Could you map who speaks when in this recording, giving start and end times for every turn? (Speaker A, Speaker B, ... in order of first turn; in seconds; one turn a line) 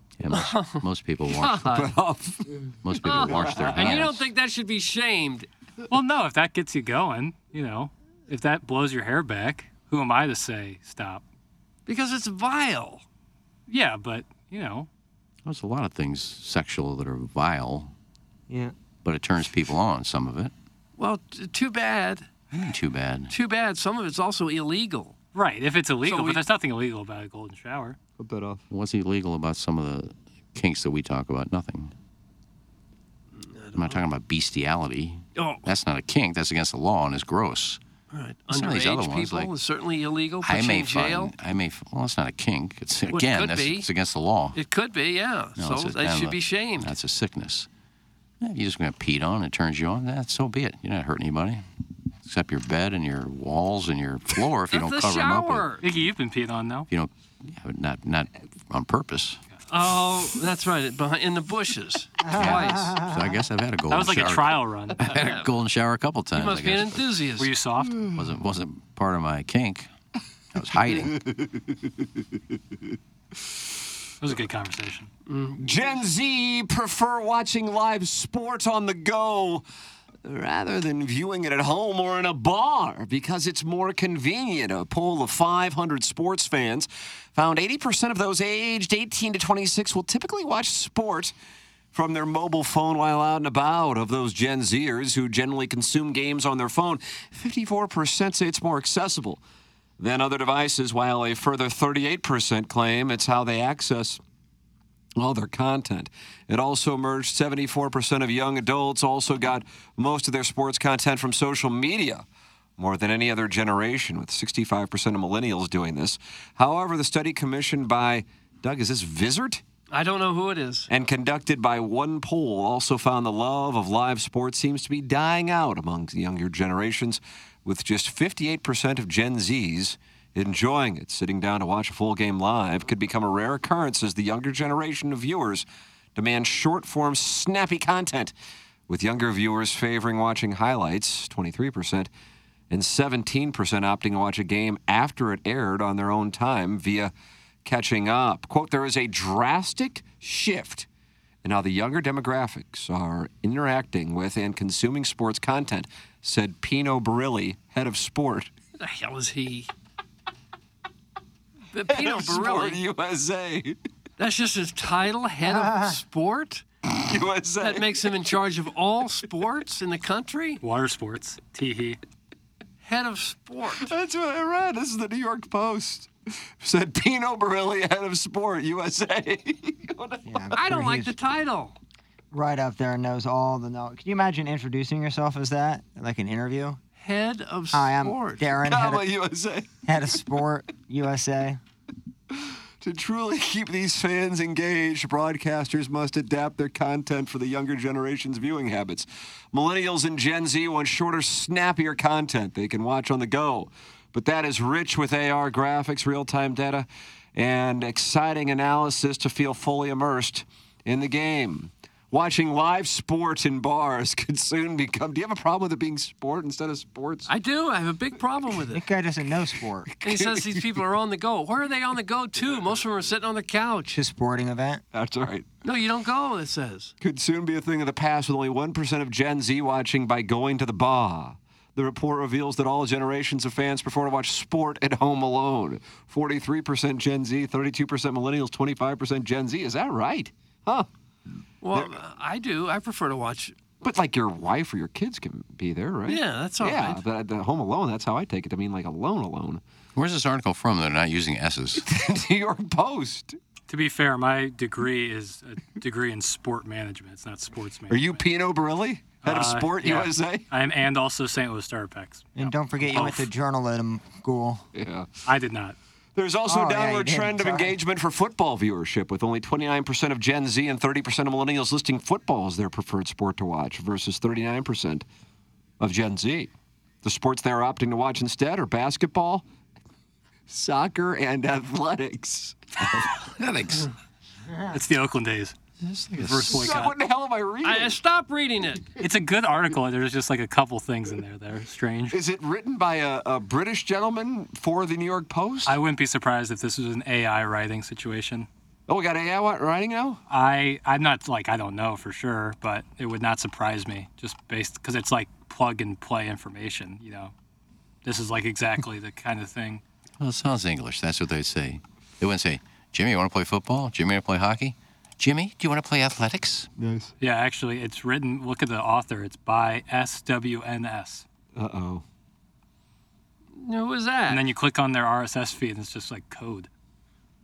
Speaker A: 0.2-1.8
Speaker B: 0.3-1.9
Speaker C: 1.7-4.1
Speaker A: 2.8-4.3
Speaker B: 3.0-5.5
Speaker D: 5.9-11.2
Speaker B: 11.9-13.1
Speaker D: 13.7-14.9
Speaker A: 15.4-17.9
Speaker E: 18.5-18.7
Speaker A: 19.0-20.5
Speaker B: 21.0-22.3
Speaker A: 22.5-23.3
Speaker B: 23.3-25.2
Speaker D: 25.3-28.0
Speaker B: 26.0-26.4
Speaker C: 28.2-28.6
Speaker A: 28.7-31.9
Speaker B: 33.4-34.0
Speaker A: 33.8-37.8
Speaker B: 35.4-35.7
Speaker B: 38.1-41.3
Speaker A: 38.5-39.5
Speaker A: 40.4-44.6
Speaker B: 43.1-43.9
Speaker B: 44.5-46.9
Speaker A: 45.6-47.7
Speaker A: 48.4-51.6
Speaker A: 52.2-55.7
Speaker B: 54.7-55.9
Speaker D: 55.8-56.9
Speaker A: 56.9-59.4
Speaker B: 59.7-63.0
Speaker E: 62.3-63.4
Speaker A: 62.3-67.1
Speaker D: 63.9-65.2
Speaker B: 65.1-65.5
Speaker B: 66.3-67.6
Speaker D: 67.4-68.1
Speaker A: 68.1-69.9
Speaker A: 70.5-71.2
Speaker C: 71.0-71.8
Speaker D: 74.2-75.1
Speaker B: 75.3-75.9
Speaker C: 75.6-79.6
Speaker C: 80.2-91.3
Speaker C: 91.9-99.4
Speaker C: 100.0-104.2
Speaker C: 105.2-112.2
Speaker C: 112.8-119.6
Speaker B: 119.9-120.9
Speaker C: 120.9-138.3
Speaker C: 138.9-142.1
Speaker C: 142.7-147.1
Speaker C: 147.7-150.9
Speaker C: 151.4-158.5
Speaker B: 158.8-159.7
Speaker B: 161.7-162.8
Speaker C: 161.9-163.8
Speaker B: 164.2-166.6
Speaker C: 166.9-167.9
Speaker B: 167.6-170.6
Speaker D: 170.6-172.0
Speaker B: 172.8-173.9
Speaker C: 173.8-180.6
Speaker E: 180.3-181.1
Speaker B: 180.5-181.8
Speaker E: 182.3-186.8
Speaker B: 187.0-188.5
Speaker E: 187.7-189.1
Speaker C: 188.6-189.8
Speaker E: 189.8-191.6
Speaker C: 192.8-217.3
Speaker B: 217.3-218.9
Speaker E: 218.7-219.9
Speaker C: 220.0-220.8
Speaker B: 220.0-224.0
Speaker E: 223.9-224.8
Speaker C: 224.9-225.5
Speaker B: 225.6-226.9
Speaker C: 227.0-240.9
Speaker B: 241.6-243.6
Speaker C: 243.8-249.6
Speaker B: 246.1-247.0
Speaker A: 250.0-251.9
Speaker C: 251.8-253.4
Speaker D: 253.7-258.2
Speaker C: 257.9-260.5
Speaker D: 259.2-263.3
Speaker E: 262.4-264.7
Speaker C: 264.8-265.1
Speaker D: 265.3-265.8
Speaker C: 266.2-275.1
Speaker E: 266.4-267.8
Speaker C: 275.8-276.5
Speaker C: 277.0-279.4
Speaker C: 280.5-282.6
Speaker A: 283.0-283.9
Speaker D: 284.7-285.6
Speaker A: 285.9-286.5
Speaker D: 286.1-286.9
Speaker C: 286.2-288.0
Speaker B: 287.6-288.9
Speaker D: 289.0-292.2
Speaker C: 292.1-295.8
Speaker D: 295.6-298.5
Speaker C: 298.9-300.2
Speaker D: 300.3-307.3
Speaker D: 308.0-309.8
Speaker A: 310.2-316.7
Speaker C: 316.8-317.1
Speaker D: 317.2-321.2
Speaker C: 321.6-322.0
Speaker B: 323.6-324.5
Speaker D: 324.3-326.7